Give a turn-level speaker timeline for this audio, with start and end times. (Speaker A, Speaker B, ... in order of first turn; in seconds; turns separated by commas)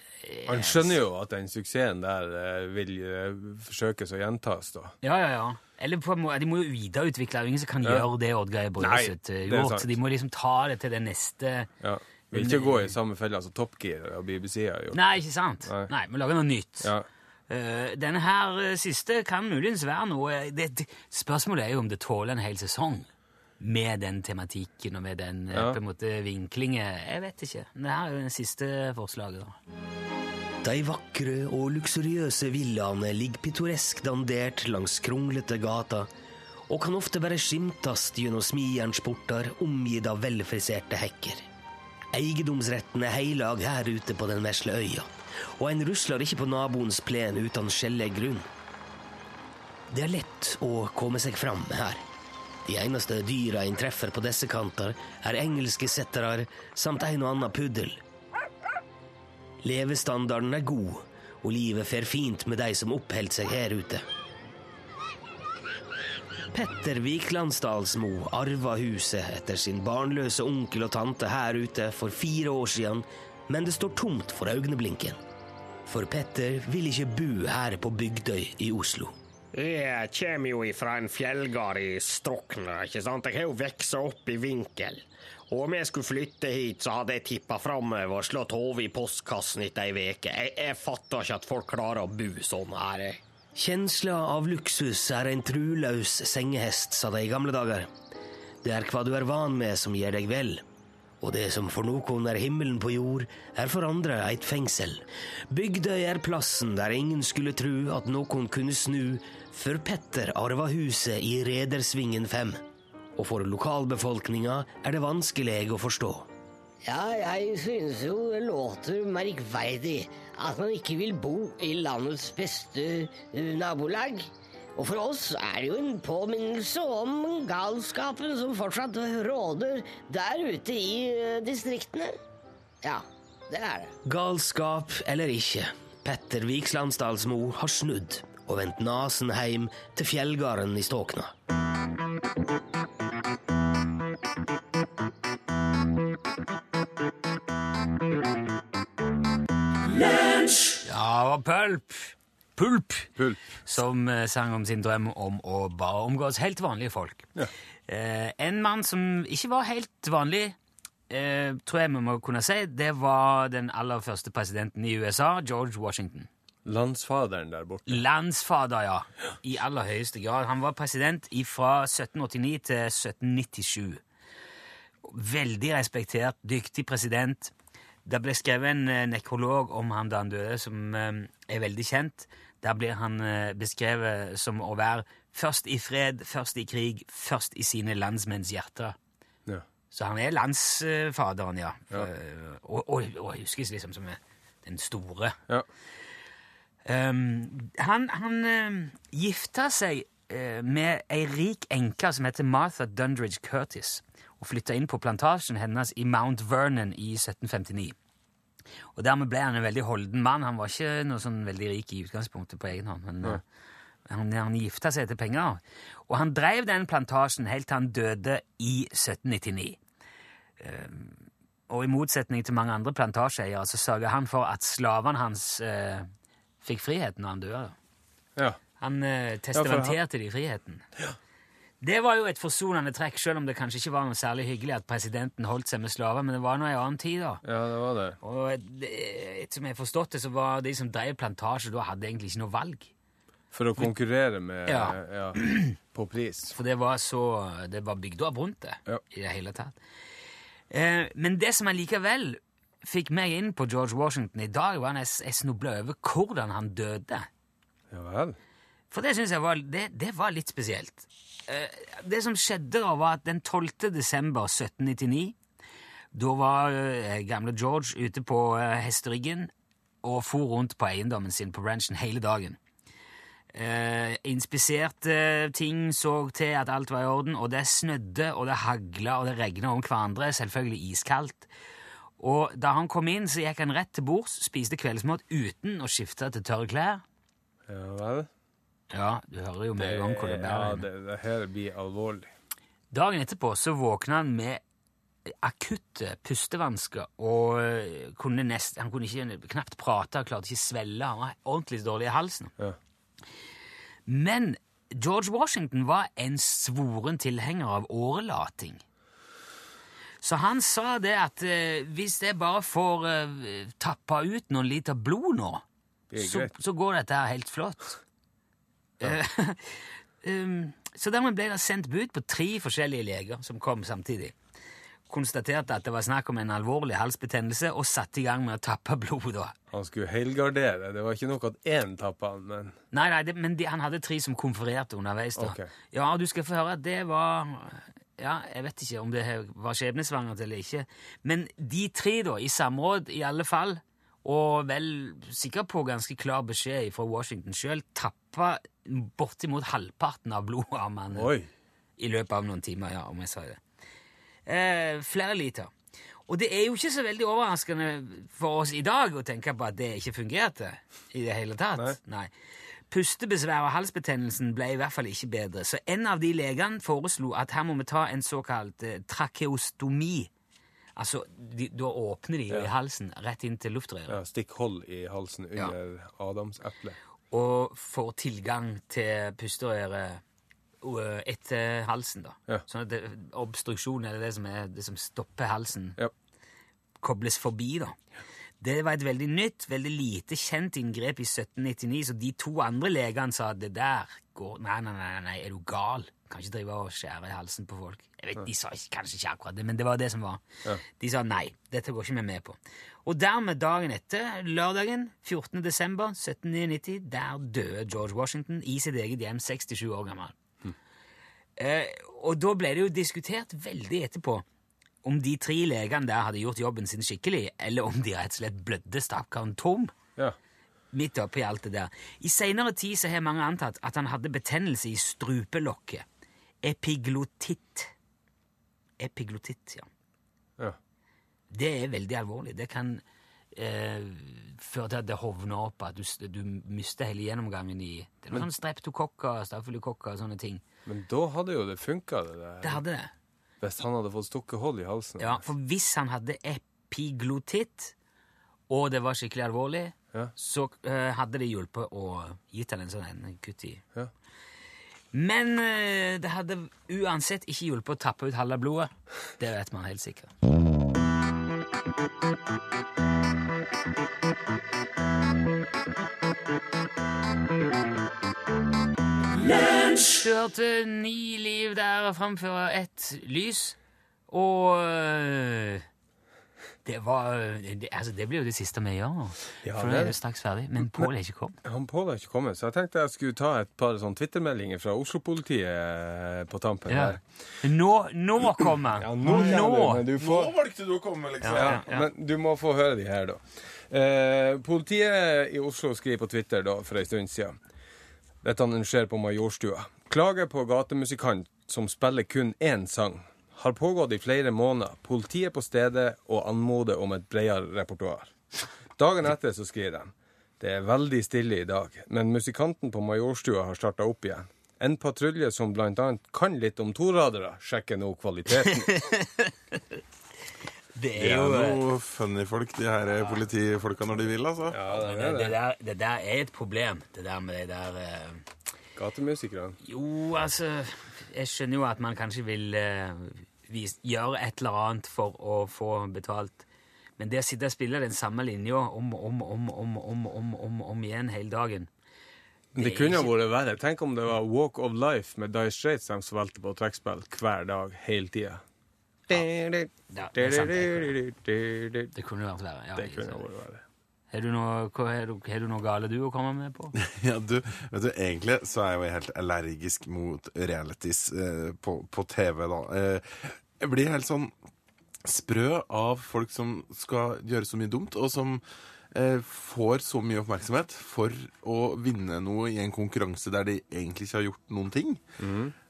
Speaker A: 0.2-1.0, Speaker B: 0.5-4.9, Speaker A: 5.0-11.7, Speaker B: 7.8-8.1, Speaker B: 8.8-9.9, Speaker B: 11.8-15.0, Speaker A: 12.3-12.9, Speaker A: 14.9-16.9, Speaker B: 15.7-15.9, Speaker B: 16.8-17.1, Speaker A: 17.5-23.1, Speaker A: 23.6-29.6, Speaker B: 25.5-25.8, Speaker C: 30.6-36.1, Speaker C: 36.7-41.5, Speaker C: 42.1-48.5, Speaker C: 49.9-52.0, Speaker C: 52.7-58.0, Speaker C: 59.6-64.0, Speaker C: 66.5-75.2, Speaker C: 75.9-79.1, Speaker D: 79.5-93.2, Speaker C: 93.5-97.9, Speaker C: 98.6-100.6, Speaker C: 101.2-112.6, Speaker C: 113.2-116.3, Speaker E: 116.8-132.2, Speaker E: 132.8-133.9, Speaker C: 134.1-141.3, Speaker A: 150.8-153.1, Speaker B: 153.2-153.4, Speaker A: 153.7-157.3, Speaker A: 157.9-160.6, Speaker A: 161.1-166.3, Speaker B: 166.7-168.0, Speaker A: 167.9-174.0, Speaker A: 175.0-177.5, Speaker A: 178.1-189.0, Speaker A: 189.9-195.4, Speaker A: 196.9-208.0, Speaker A: 209.0-213.4, Speaker A: 214.1-219.8, Speaker A: 220.6-226.1, Speaker A: 226.6-227.8, Speaker A: 228.8-230.9, Speaker B: 229.5-230.0, Speaker A: 231.8-237.4, Speaker B: 237.4-238.2, Speaker A: 238.2-242.9, Speaker B: 243.5-246.5, Speaker A: 244.7-245.7, Speaker A: 246.5-249.8, Speaker A: 250.7-257.3, Speaker B: 257.9-258.4, Speaker A: 258.9-265.4, Speaker A: 266.1-269.5, Speaker A: 270.0-272.6, Speaker A: 273.5-281.5, Speaker A: 282.2-287.0, Speaker B: 287.7-288.3, Speaker A: 288.9-290.9, Speaker B: 289.8-292.3, Speaker A: 292.9-294.6, Speaker A: 295.3-302.5, Speaker A: 304.1-308.8, Speaker A: 310.2-315.6, Speaker B: 316.1-316.5, Speaker A: 316.2-318.0, Speaker A: 319.0-324.4, Speaker A: 325.1-329.6, Speaker B: 329.7-332.8, Speaker A: 332.9-351.3, Speaker B: 335.4-335.7, Speaker B: 351.1-351.5, Speaker A: 352.0-353.6, Speaker A: 354.5-355.7, Speaker A: 356.3-362.3, Speaker A: 362.9-370.3, Speaker A: 371.0-374.2, Speaker B: 374.1-377.0, Speaker A: 377.3-380.2, Speaker A: 380.8-386.0, Speaker A: 387.0-388.0, Speaker A: 388.6-410.4, Speaker A: 411.6-414.4, Speaker A: 415.0-420.0, Speaker A: 420.9-426.1, Speaker A: 426.6-427.9, Speaker A: 429.0-429.9, Speaker A: 431.5-433.0, Speaker A: 433.6-440.6, Speaker B: 440.9-442.8, Speaker A: 442.6-443.1, Speaker B: 443.6-445.4, Speaker A: 445.2-447.9, Speaker A: 448.7-453.8, Speaker A: 455.1-460.3, Speaker A: 469.7-473.8, Speaker A: 474.3-475.9, Speaker A: 476.9-481.6, Speaker B: 479.6-480.1, Speaker B: 480.8-481.1, Speaker B: 481.6-487.2, Speaker A: 486.9-490.1, Speaker B: 489.0-490.5, Speaker F: 489.4-491.9, Speaker A: 491.4-492.1, Speaker B: 491.6-497.6, Speaker B: 498.4-508.3, Speaker B: 509.0-518.9, Speaker A: 518.6-519.8, Speaker A: 521.0-521.8, Speaker F: 521.2-524.8, Speaker B: 524.7-525.6, Speaker A: 524.9-528.4, Speaker B: 529.0-529.8, Speaker A: 529.8-536.7, Speaker A: 537.2-541.9, Speaker B: 542.8-548.6, Speaker A: 542.8-543.3, Speaker B: 549.3-552.1, Speaker A: 550.1-551.2, Speaker A: 552.1-553.5, Speaker B: 553.0-553.8, Speaker A: 554.3-557.0, Speaker F: 557.0-564.5, Speaker F: 565.2-575.2, Speaker B: 575.4-575.7